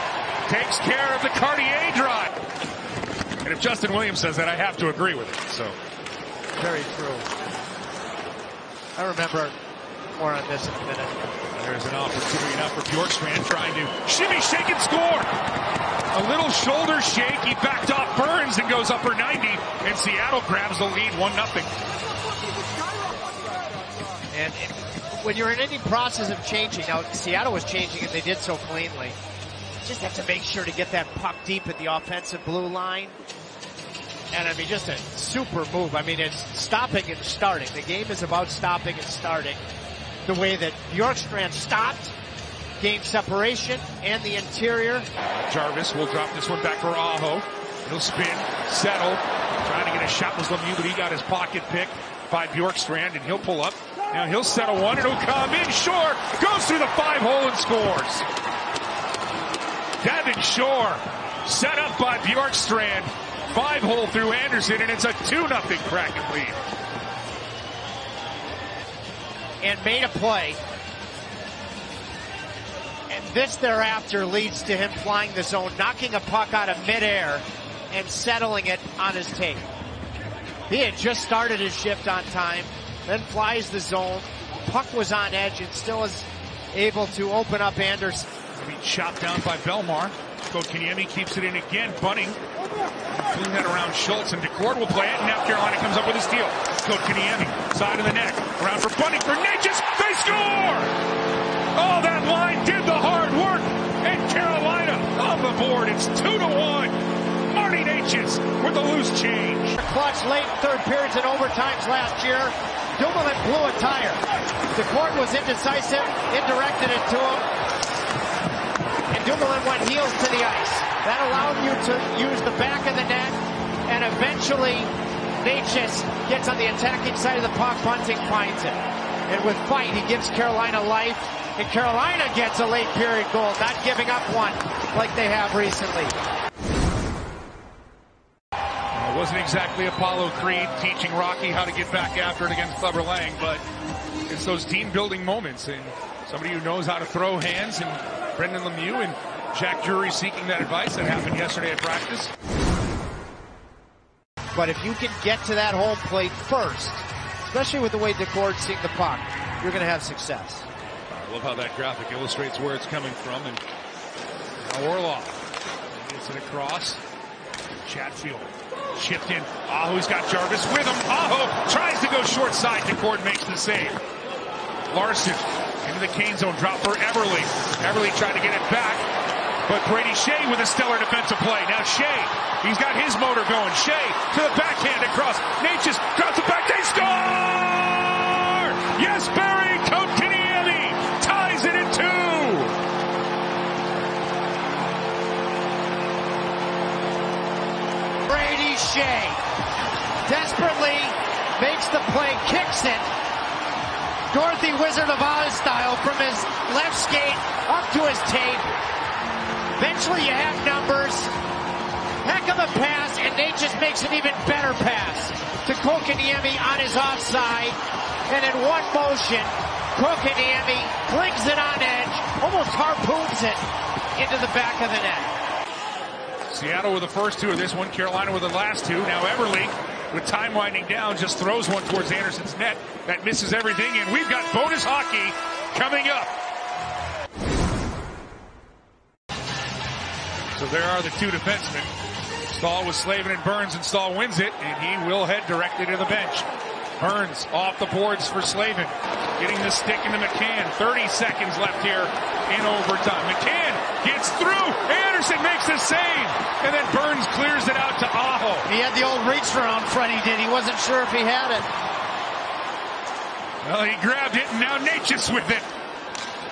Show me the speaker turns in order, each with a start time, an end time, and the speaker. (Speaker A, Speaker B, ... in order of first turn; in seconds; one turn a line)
Speaker A: 0.5-2.4
Speaker A: 3.4-5.8
Speaker B: 6.6-7.3
Speaker B: 9.0-9.6
Speaker B: 10.2-11.3
Speaker A: 11.5-15.3
Speaker A: 16.1-21.8
Speaker B: 24.3-29.2
Speaker B: 29.8-33.2
Speaker B: 34.3-39.6
Speaker B: 40.2-42.1
Speaker B: 42.8-45.1
Speaker A: 45.2-58.3
Speaker A: 60.0-66.6
Speaker B: 69.6-70.6
Speaker B: 73.1-79.7
Speaker B: 80.7-88.3
Speaker A: 88.5-92.4
Speaker A: 93.1-101.0
Speaker A: 101.8-109.8
Speaker B: 109.8-117.5
Speaker B: 119.1-136.2
Speaker A: 138.9-143.6
Speaker A: 144.3-152.3
Speaker B: 154.6-160.7
Speaker A: 161.2-163.6
Speaker A: 164.6-165.4
Speaker A: 165.9-167.0
Speaker A: 167.8-174.0
Speaker A: 174.9-179.1
Speaker A: 179.7-192.8
Speaker B: 198.3-199.4
Speaker B: 200.2-203.1
Speaker B: 204.3-208.7
Speaker B: 209.8-211.3
Speaker B: 212.2-225.3
Speaker A: 226.5-236.3
Speaker A: 240.5-241.9
Speaker A: 242.5-246.5
Speaker A: 247.0-258.7
Speaker B: 258.7-261.7
Speaker A: 263.6-265.7